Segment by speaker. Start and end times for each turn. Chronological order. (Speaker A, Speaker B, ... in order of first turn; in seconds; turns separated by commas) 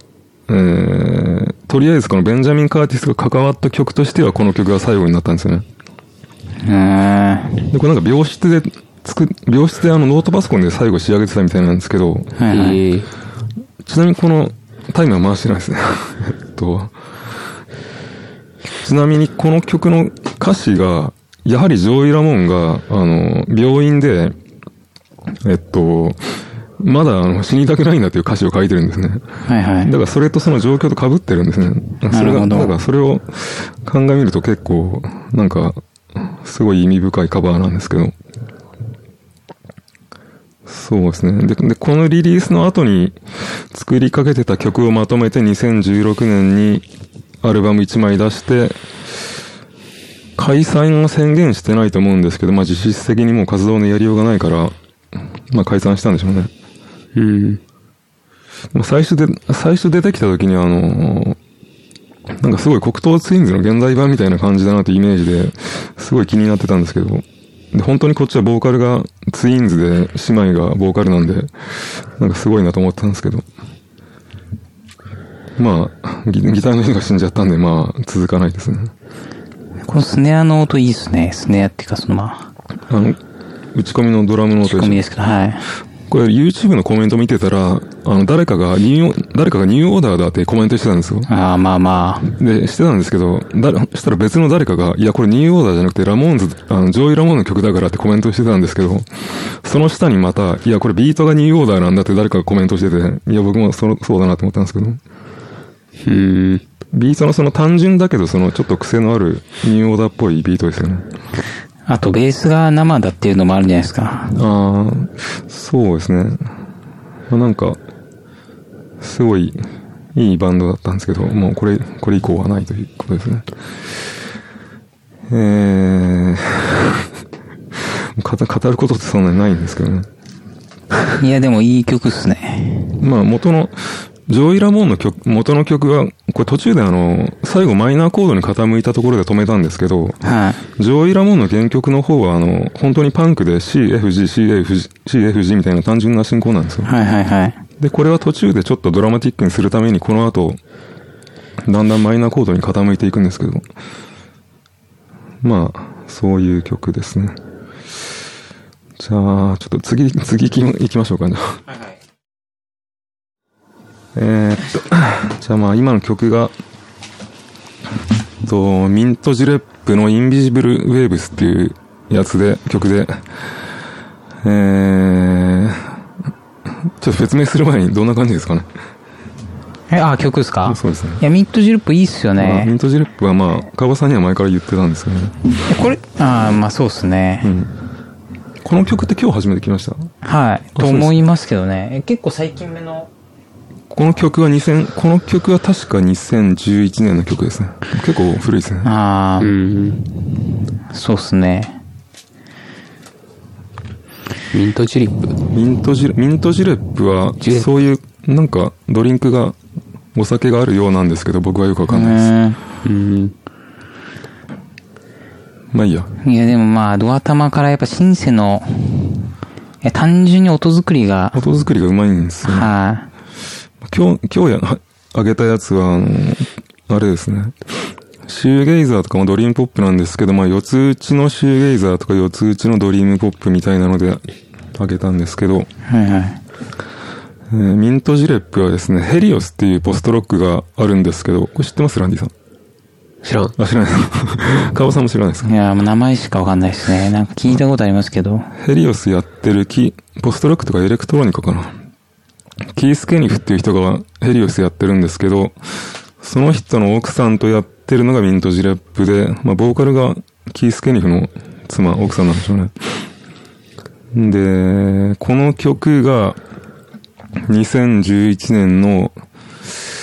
Speaker A: 0.5-5.7, Speaker B: 6.6-7.7, Speaker A: 7.7-12.3, Speaker B: 12.4-12.8, Speaker C: 12.5-13.1, Speaker A: 13.8-16.9, Speaker A: 18.8-24.4, Speaker A: 25.4-29.2, Speaker B: 29.4-29.9, Speaker A: 29.8-38.1, Speaker B: 32.1-32.7, Speaker A: 40.6-43.2, Speaker A: 43.7-46.9, Speaker A: 47.4-48.8, Speaker A: 50.4-54.7, Speaker A: 55.5-56.5, Speaker C: 57.1-57.6, Speaker A: 58.7-61.4, Speaker A: 62.3-71.5, Speaker A: 72.2-73.5, Speaker A: 75.6-78.9, Speaker B: 79.9-82.5, Speaker A: 82.9-83.2, Speaker A: 83.7-85.0, Speaker B: 84.6-85.7, Speaker A: 86.1-91.3, Speaker B: 91.3-92.3, Speaker A: 92.2-105.0, Speaker C: 106.0-106.6, Speaker A: 106.9-111.1, Speaker B: 111.9-114.3, Speaker A: 114.3-116.5, Speaker A: 117.3-117.8, Speaker A: 119.0-119.6, Speaker A: 120.1-123.5, Speaker A: 125.3-127.1, Speaker A: 127.7-130.1, Speaker B: 131.2-133.0, Speaker A: 133.0-140.2, Speaker B: 140.2-140.6, Speaker A: 140.8-146.9, Speaker B: 146.8-147.6, Speaker A: 147.8-150.6, Speaker A: 151.6-153.7, Speaker A: 155.4-157.4, Speaker A: 159.0-161.6, Speaker A: 164.1-166.5, Speaker A: 168.4-173.2, Speaker A: 174.4-176.0, Speaker A: 176.8-178.7, Speaker B: 179.9-182.7, Speaker A: 180.7-181.2, Speaker A: 182.4-185.3, Speaker B: 185.6-187.5, Speaker A: 187.4-187.7, Speaker A: 188.6-190.1, Speaker B: 190.2-193.1, Speaker A: 190.7-191.2, Speaker A: 193.9-198.9, Speaker B: 198.8-199.5, Speaker C: 199.4-200.0, Speaker B: 200.9-201.8, Speaker C: 204.5-205.4, Speaker A: 205.5-209.6, Speaker C: 207.4-207.7, Speaker A: 210.1-212.3, Speaker B: 211.9-212.6, Speaker C: 212.8-213.3, Speaker A: 215.7-216.1, Speaker B: 216.2-219.3, Speaker B: 219.8-221.4, Speaker A: 221.3-222.7, Speaker B: 222.4-223.1, Speaker A: 223.8-227.6, Speaker A: 228.2-234.2, Speaker A: 234.8-235.7, Speaker B: 235.9-236.4, Speaker A: 237.5-242.3, Speaker C: 243.2-243.5, Speaker A: 243.6-245.5, Speaker B: 245.4-248.5, Speaker A: 248.6-251.7, Speaker A: 252.7-255.6, Speaker A: 256.2-262.7, Speaker A: 264.1-266.4, Speaker A: 267.4-269.1